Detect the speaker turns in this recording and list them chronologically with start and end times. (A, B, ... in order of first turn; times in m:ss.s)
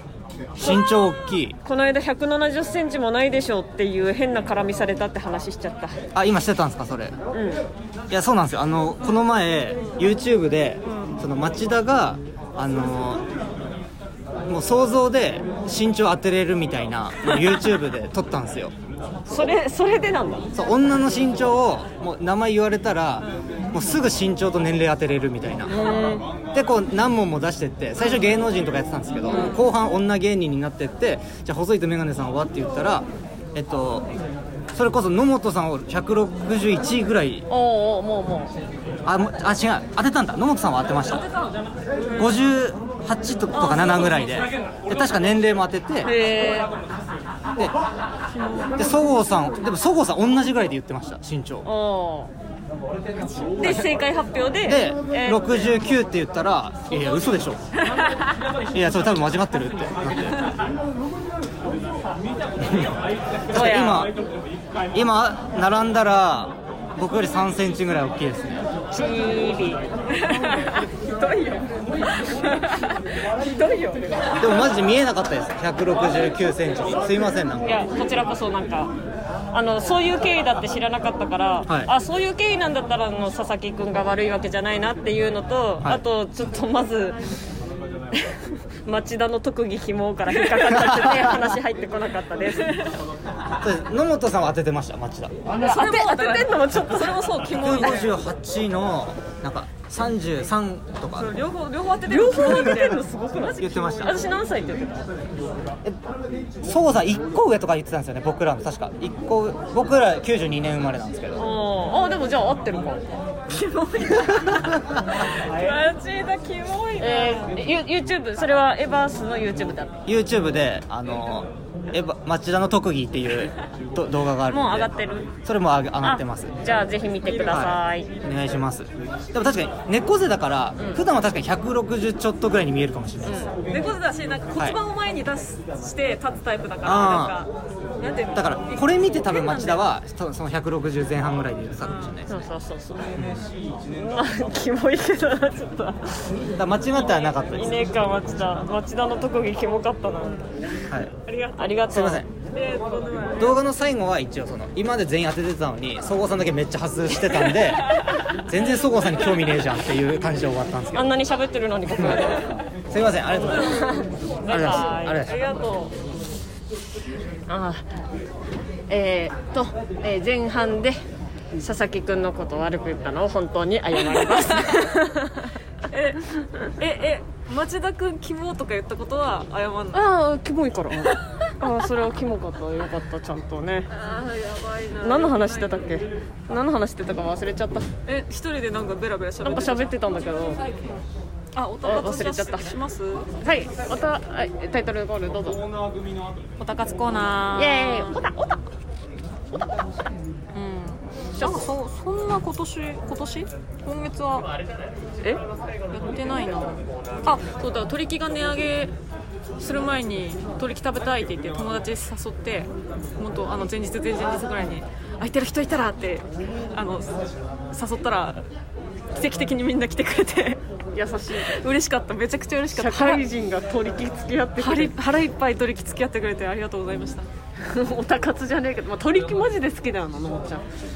0:00.6-0:01.6 A
0:00.6-0:00.9 B
0:01.6-0:06.0 B
0:06.1-0:07.1 A
0:07.3-0:07.6 B
0:08.1-0:13.2 A
0:14.5-0:18.7 A
0:19.3-0:20.6 B
0:20.5-0:25.7 A
0:25.6-0:26.3 B
0:26.5-0:34.0 A
0:29.3-0:29.6 B
0:29.3-0:29.6 C
0:34.7-0:37.4 A
0:37.5-0:38.5 B
0:39.0-0:41.3 A
0:42.2-0:46.1 A
0:43.5-0:44.2 B
0:46.0-0:46.7 B
0:48.8-0:51.7 A
0:51.6-0:52.3 B
0:53.4-0:55.7 B
0:53.6-0:53.9 A
0:54.6-0:57.6 A
0:58.7-1:00.5 A
1:02.6-1:03.0 A
1:03.5-1:04.1 A
1:03.5-1:04.1 B
1:04.9-1:08.7 A
1:08.9-1:09.8 B
1:10.1-1:13.2 C
1:13.4-1:14.4 B
1:14.4-1:17.8 A
1:17.6-1:18.9 B
1:19.5-1:27.2 B
1:28.1-1:32.8 B
1:30.7-1:31.2 A
1:32.7-1:32.9 C
1:33.6-1:35.4 A
1:35.6-1:37.3 B
1:35.6-1:38.2 C
1:37.5-1:41.3 A
1:41.1-1:44.2 C
1:42.1-1:45.0 B
1:43.6-1:44.2 A
1:46.6-1:51.4 A
1:51.3-1:53.0 B
1:53.5-1:57.6 C
1:57.0-2:00.0 B
2:00.0-2:06.6 A
2:04.5-2:05.3 B
2:06.0-2:08.1 B
2:07.2-2:07.7 C
2:07.4-2:13.5 A
2:10.8-2:11.0 B
2:13.2-2:13.5 B
2:13.7-2:19.8 C
2:16.8-2:17.4 A
2:18.3-2:22.3 A
2:21.8-2:22.2 C
2:22.3-2:23.1 B
2:23.9-2:26.3 B
2:26.6-2:27.7 A
2:27.1-2:30.8 B
2:31.3-2:31.8 C
2:31.5-2:32.2 B
2:31.8-2:32.3 A
2:32.5-2:33.6 C
2:33.4-2:41.1 A
2:40.9-2:42.6 B
2:42.9-2:45.4 A
2:43.4-2:45.2 B
2:43.5-2:45.9 C
2:47.5-2:47.8 B
2:48.9-2:51.0 B
2:51.6-2:55.5 B
2:54.5-2:55.1 C
2:55.8-3:00.0 C
2:59.9-3:03.9 B
3:01.1-3:01.5 C
3:03.9-3:06.0 C
3:05.0-3:07.9 B
3:08.0-3:11.0 C
3:09.4-3:10.6 B
3:11.5-3:13.3 C
3:11.8-3:12.8 B
3:13.4-3:15.6 B
3:16.6-3:18.2 C
3:17.5-3:18.7 B
3:19.5-3:19.8 B
3:20.5-3:24.5 C
3:21.3-3:21.7 B
3:25.9-3:28.9 C
3:29.6-3:37.2 C
3:37.7-3:38.4 C
3:39.1-3:40.6 C
3:40.9-3:41.6 B
3:41.3-3:43.2 C
3:42.7-3:44.9 B
3:44.6-3:47.3 C
3:47.6-3:50.7 B